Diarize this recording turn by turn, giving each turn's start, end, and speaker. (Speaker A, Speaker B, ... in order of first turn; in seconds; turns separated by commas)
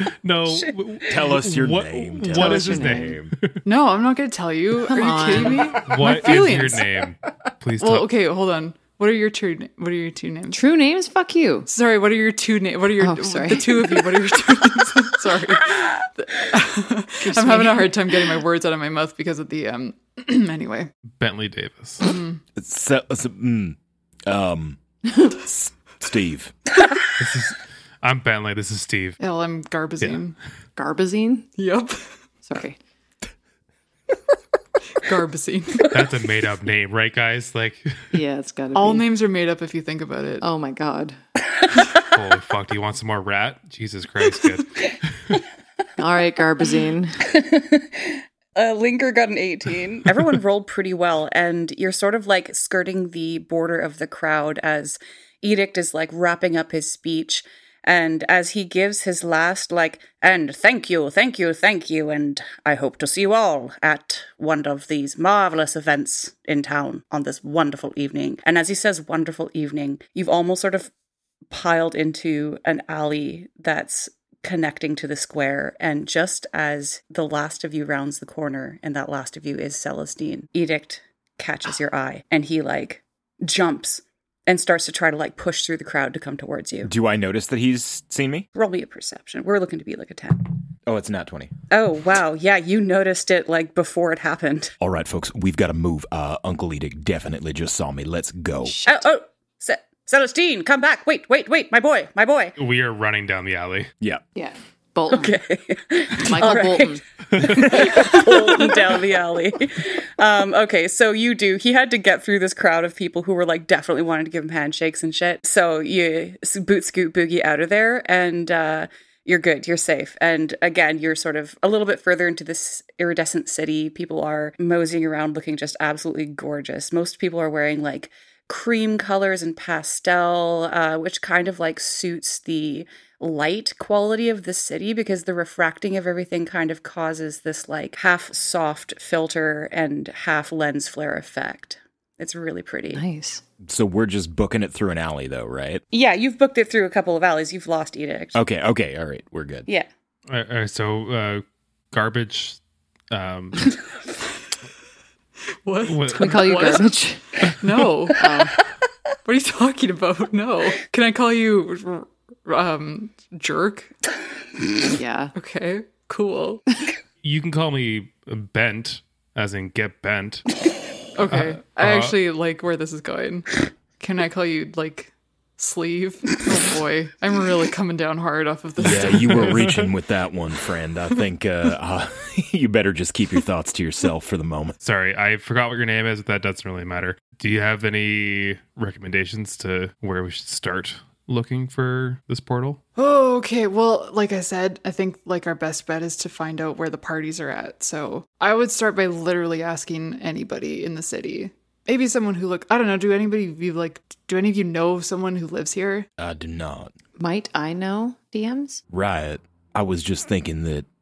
Speaker A: 0.2-3.6, Speaker B: 1.1-3.3, Speaker C: 2.3-3.2, Speaker D: 3.6-6.8, Speaker C: 4.8-5.8, Speaker A: 5.8-8.1, Speaker D: 7.8-10.7, Speaker C: 10.5-11.7, Speaker D: 11.7-20.9, Speaker C: 13.0-14.5, Speaker C: 15.1-15.4, Speaker C: 17.2-18.3, Speaker A: 21.2-22.0, Speaker D: 22.0-22.4, Speaker B: 22.5-24.8, Speaker B: 26.0-26.5, Speaker A: 27.2-29.2, Speaker D: 29.2-30.4, Speaker C: 30.8-31.5, Speaker D: 31.6-32.1, Speaker C: 32.4-32.8, Speaker D: 35.0-35.9, Speaker A: 35.9-37.9, Speaker C: 38.1-39.0, Speaker D: 38.7-40.5, Speaker C: 40.4-41.2, Speaker A: 42.1-44.7, Speaker C: 46.0-47.2, Speaker E: 47.3-70.9, Speaker E: 71.5-86.9, Speaker B: 86.8-88.5, Speaker E: 88.5-90.5, Speaker B: 90.9-91.5, Speaker E: 91.7-94.7, Speaker B: 94.8-98.8, Speaker C: 98.7-99.0, Speaker E: 98.8-102.5, Speaker A: 102.6-103.9, Speaker C: 104.3-105.3, Speaker E: 105.1-143.0, Speaker C: 106.2-107.0, Speaker C: 142.9-143.4, Speaker B: 143.6-145.8, Speaker E: 145.9-148.3, Speaker B: 148.3-149.7, Speaker A: 150.3-152.6, Speaker A: 153.1-153.7, Speaker D: 155.6-157.0, Speaker A: 155.8-156.6, Speaker C: 156.1-157.2, Speaker D: 157.6-158.3, Speaker C: 158.1-158.5, Speaker D: 159.2-163.9, Speaker C: 164.9-165.3, Speaker D: 165.3-166.6, Speaker A: 167.2-170.5, Speaker D: 171.2-179.6, Speaker A: 171.2-172.1, Speaker B: 178.8-184.8, Speaker A: 179.3-179.6, Speaker A: 184.8-192.8, Speaker D: 192.9-206.1, Speaker B: 206.2-206.9, Speaker C: 207.2-208.8, Speaker B: 208.9-210.8